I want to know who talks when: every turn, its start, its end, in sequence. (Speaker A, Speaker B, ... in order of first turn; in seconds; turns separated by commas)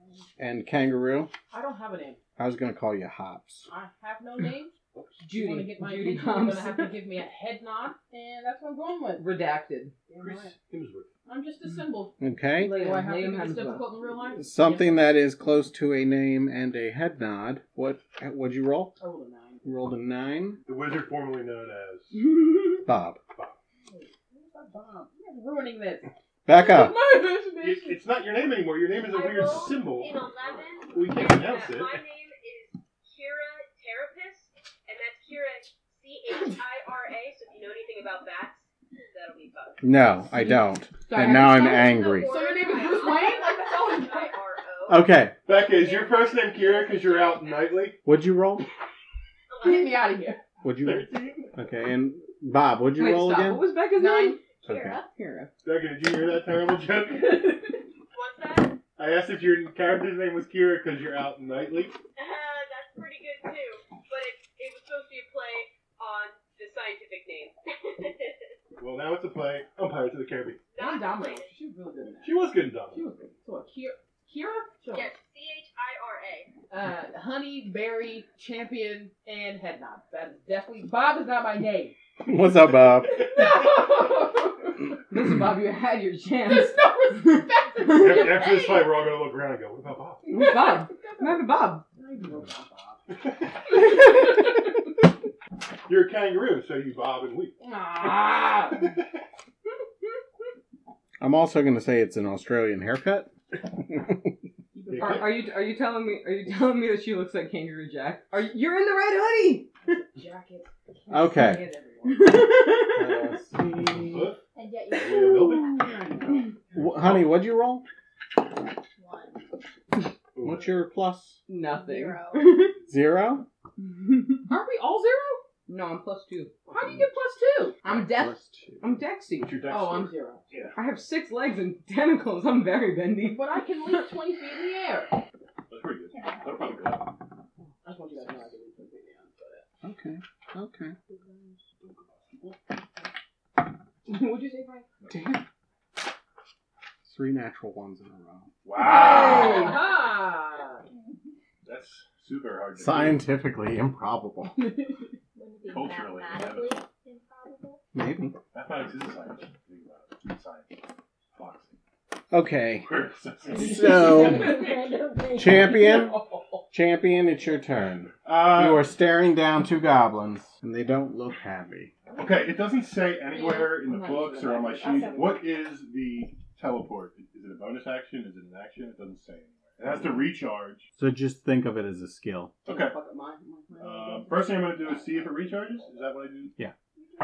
Speaker A: 0.4-1.3, Speaker B: 1.5-2.2, Speaker A: 2.4-3.7, Speaker B: 3.7-4.7, Speaker C: 5.2-7.0, Speaker B: 5.3-9.3, Speaker C: 9.2-9.9, Speaker B: 10.1-10.5, Speaker D: 10.2-11.1, Speaker B: 11.2-15.1, Speaker A: 12.2-12.8, Speaker C: 12.6-13.9, Speaker A: 14.4-18.9, Speaker B: 19.0-19.6, Speaker A: 19.6-20.6, Speaker D: 20.6-22.2, Speaker A: 22.8-23.2, Speaker B: 23.9-28.0, Speaker A: 26.4-27.0, Speaker D: 27.6-32.0, Speaker E: 29.1-39.8, Speaker A: 39.8-42.3, Speaker B: 41.0-44.3, Speaker E: 41.6-45.0, Speaker A: 44.9-45.4, Speaker D: 45.5-48.0, Speaker E: 45.8-47.8, Speaker A: 48.0-48.7, Speaker E: 49.5-50.2, Speaker B: 49.6-50.4, Speaker A: 50.6-53.6, Speaker D: 50.7-51.5, Speaker C: 53.0-54.4, Speaker B: 53.9-54.4, Speaker F: 54.6-55.0, Speaker A: 54.6-55.0, Speaker C: 55.1-55.5, Speaker D: 55.6-57.8, Speaker E: 58.1-58.8, Speaker D: 59.0-62.0, Speaker E: 62.1-68.5, Speaker D: 68.8-70.7, Speaker E: 70.7-71.5, Speaker B: 70.8-75.1, Speaker D: 72.2-73.0, Speaker E: 74.9-76.5, Speaker B: 76.7-82.0, Speaker A: 82.2-83.4, Speaker B: 83.1-84.7, Speaker C: 85.1-88.0, Speaker B: 86.4-88.9, Speaker D: 87.8-90.4, Speaker C: 90.3-91.8, Speaker B: 90.3-93.0, Speaker D: 93.1-94.0, Speaker D: 95.8-97.6, Speaker B: 97.6-98.9, Speaker A: 101.2-104.3, Speaker B: 104.7-105.4, Speaker D: 104.9-105.3, Speaker C: 105.0-109.9, Speaker B: 109.8-112.5, Speaker A: 111.1-111.6, Speaker C: 112.0-113.3, Speaker A: 112.8-114.3, Speaker D: 113.9-114.4, Speaker F: 114.5-115.7, Speaker D: 114.9-117.3, Speaker B: 115.7-116.4, Speaker A: 116.8-117.8, Speaker F: 119.0-119.4, Speaker D: 120.3-120.8, Speaker A: 120.4-121.4, Speaker C: 121.5-122.8, Speaker F: 121.6-122.6, Speaker A: 122.9-123.5, Speaker B: 124.5-125.4, Speaker C: 125.7-126.6, Speaker B: 126.7-127.8, Speaker C: 127.8-129.5, Speaker A: 127.8-128.9, Speaker D: 129.4-130.8, Speaker B: 129.7-130.5, Speaker C: 130.8-134.1, Speaker B: 133.2-135.2, Speaker D: 135.7-137.1, Speaker F: 136.1-136.8, Speaker B: 137.8-139.6, Speaker A: 139.8-140.9, Speaker B: 141.1-141.6, Speaker D: 141.8-142.6, Speaker B: 144.1-144.9, Speaker A: 145.1-145.4, Speaker A: 147.0-148.5, Speaker D: 148.6-149.8, Speaker B: 148.8-150.8, Speaker C: 148.8-149.8, Speaker D: 151.6-153.2, Speaker A: 152.8-154.8, Speaker B: 154.6-154.9, Speaker F: 155.3-157.8, Speaker D: 155.7-156.8, Speaker A: 157.9-158.4, Speaker D: 158.5-161.8, Speaker A: 162.3-162.9, Speaker D: 162.8-164.2, Speaker A: 163.5-164.6, Speaker F: 163.9-165.6, Speaker B: 164.3-164.6, Speaker A: 165.3-171.9, Speaker B: 165.6-166.6, Speaker D: 168.2-168.9, Speaker D: 172.1-180.9, Speaker B: 173.3-175.2, Speaker C: 173.9-175.3, Speaker A: 181.0-182.6, Speaker D: 182.7-182.9, Speaker B: 182.7-184.4, Speaker D: 183.8-186.5